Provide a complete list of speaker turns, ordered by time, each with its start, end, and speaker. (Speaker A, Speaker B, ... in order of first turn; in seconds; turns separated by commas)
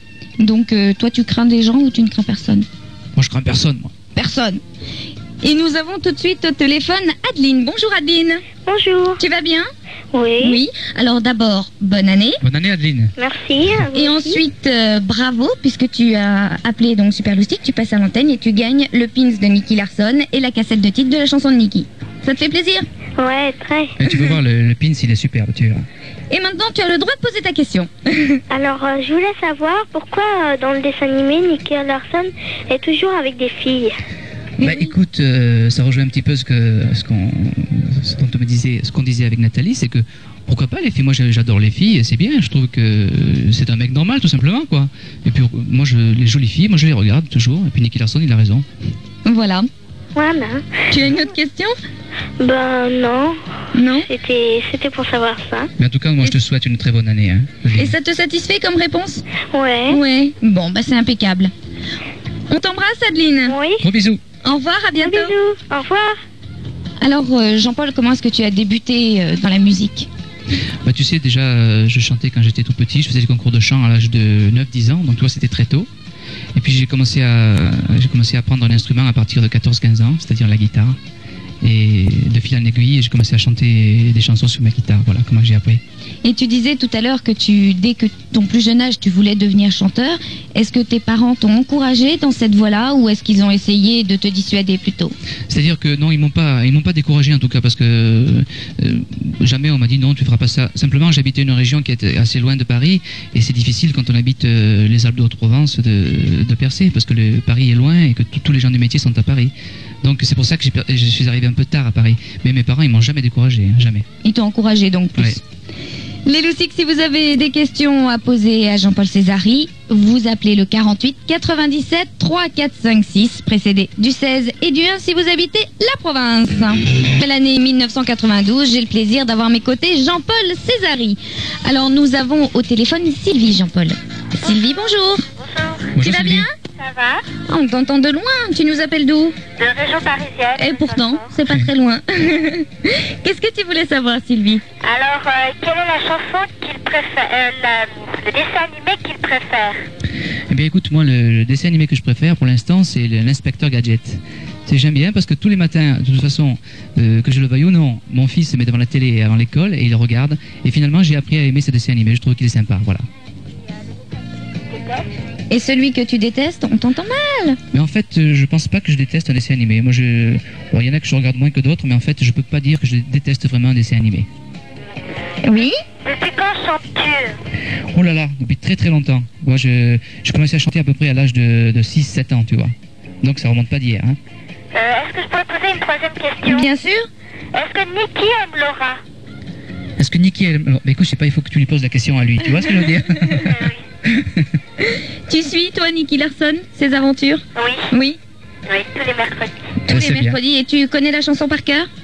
Speaker A: 0.4-2.7, Speaker B: 3.2-3.9, Speaker A: 4.2-4.6, Speaker A: 5.4-8.4, Speaker C: 8.7-9.2, Speaker A: 9.2-9.7, Speaker C: 10.1-10.6, Speaker A: 10.4-12.4, Speaker B: 12.4-13.1, Speaker C: 13.2-14.4, Speaker A: 13.9-22.9, Speaker C: 23.2-24.0, Speaker B: 24.0-25.9, Speaker A: 26.3-28.4, Speaker C: 28.5-34.0, Speaker A: 34.6-34.9, Speaker B: 34.6-48.7, Speaker A: 49.2-49.7, Speaker C: 50.1-50.8, Speaker A: 50.9-51.8, Speaker C: 52.4-55.7, Speaker A: 53.7-54.1, Speaker B: 55.8-58.0, Speaker A: 57.8-59.2, Speaker C: 59.5-60.0, Speaker A: 59.9-61.5, Speaker A: 62.5-63.5, Speaker C: 63.5-63.9, Speaker B: 63.8-64.2, Speaker A: 64.4-65.3, Speaker C: 65.0-66.2, Speaker A: 67.0-70.1, Speaker B: 70.8-75.9, Speaker B: 76.5-81.0, Speaker B: 81.6-85.8, Speaker A: 86.2-95.2, Speaker B: 95.5-114.1, Speaker A: 114.2-115.4, Speaker A: 116.2-135.3, Speaker D: 135.4-135.9, Speaker B: 135.9-136.5, Speaker A: 136.0-136.5, Speaker D: 136.6-137.2, Speaker A: 137.4-139.4, Speaker D: 139.6-141.3, Speaker A: 140.6-144.6, Speaker D: 144.8-149.8, Speaker B: 150.5-163.1, Speaker D: 164.7-165.1, Speaker A: 165.5-167.6, Speaker B: 167.7-174.3, Speaker A: 175.4-175.7, Speaker D: 176.0-177.3, Speaker B: 177.9-184.2, Speaker D: 184.7-186.7, Speaker A: 186.4-187.1, Speaker D: 187.5-189.0, Speaker B: 190.0-194.5, Speaker D: 193.4-193.8, Speaker A: 194.8-198.2, Speaker D: 197.6-197.9, Speaker D: 198.7-199.6, Speaker A: 199.9-201.9, Speaker B: 199.9-200.4